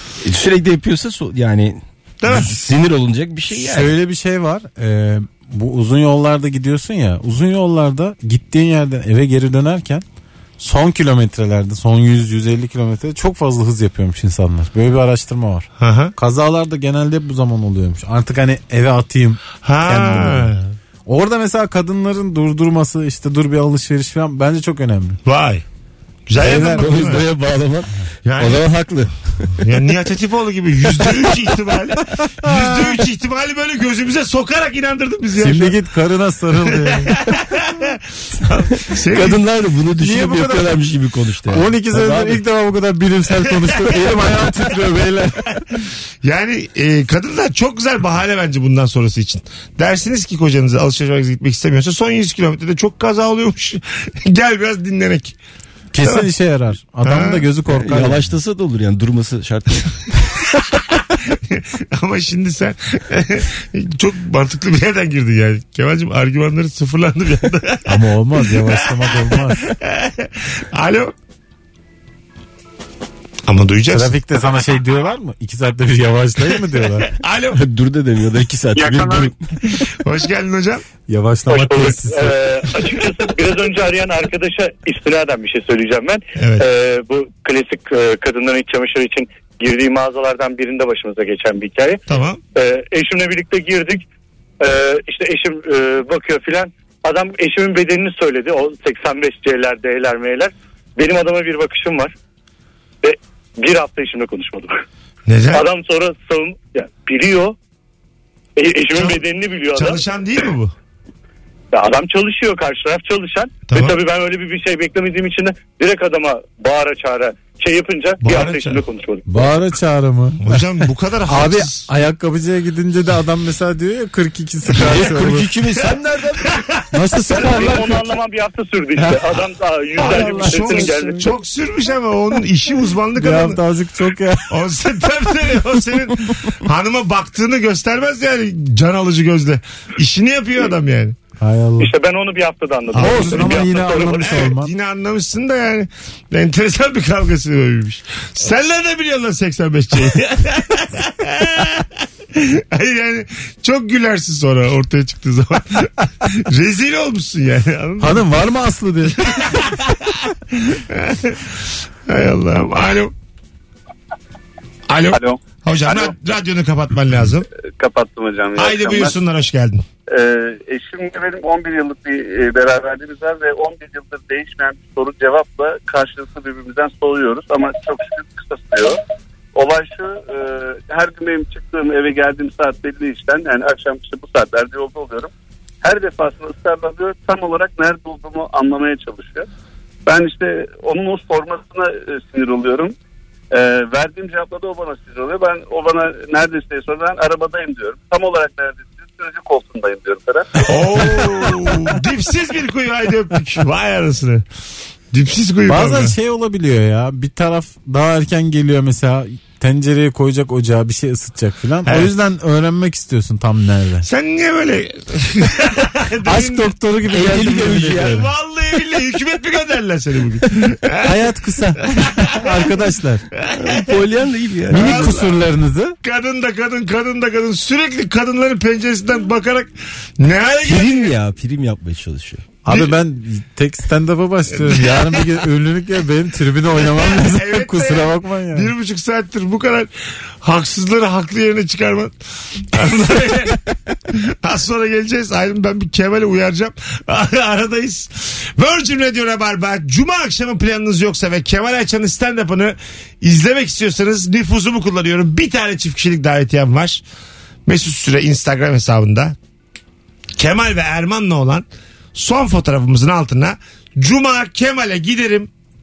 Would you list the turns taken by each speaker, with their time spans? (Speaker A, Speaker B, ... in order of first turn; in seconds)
Speaker A: 0.2-3.9, 26.4-29.6, 39.1-42.4, 57.7-60.1, 77.5-79.3, 124.8-126.5, 217.1-218.2, 223.6-225.2, 230.6-232.5
Speaker B: 2.2-2.6, 15.8-16.1, 19.6-20.7, 25.2-25.6, 26.3-27.3, 28.2-28.7, 29.6-35.8, 37.0-39.4, 46.2-55.4, 56.0-56.3, 57.0-57.4, 61.3-68.0, 68.8-69.0, 69.6-71.1, 73.5-74.2, 77.2-77.6, 79.7-80.8, 86.4-86.6, 92.1-92.4, 105.3-105.6, 108.9-109.2, 109.7-110.7, 113.7-114.0, 118.2-118.8, 120.4-121.8, 126.5-126.8, 130.0-133.6, 134.5-141.2, 142.9-158.3, 159.2-161.5, 162.1-163.1, 164.9-167.5, 168.6-169.8, 200.6-204.4, 205.1-206.1, 214.1-216.7, 218.1-221.1, 222.0-222.4, 223.5-224.0, 224.7-225.3, 226.0-231.1, 234.6-235.2, 237.1-239.9, 240.4-242.1, 242.7-243.6, 244.1-257.0, 257.6-259.4, 260.4-265.5
Speaker C: 3.7-10.0, 10.6-20.5, 21.1-25.2, 26.4-27.2, 35.4-37.2, 40.0-40.8, 41.5-45.6, 55.9-58.3, 67.8-69.6, 73.9-77.1, 81.1-82.3, 119.3-120.4, 121.3-125.5, 126.9-128.0, 130.0-131.3, 133.1-134.6, 141.4-141.9, 142.9-144.7, 158.0-159.3, 205.7-214.1, 216.2-218.3, 221.0-223.2, 224.7-225.9, 232.6-238.7
Speaker D: 81.5-92.0, 92.5-94.0, 94.6-102.1, 103.0-104.7, 105.5-107.5, 108.6-110.0, 111.7-119.2, 127.3-131.3, 141.8-144.2
Speaker E: 165.1-166.1, 167.8-169.2, 170.1-179.0, 179.5-185.3, 185.8-189.5, 190.1-192.9, 193.5-200.5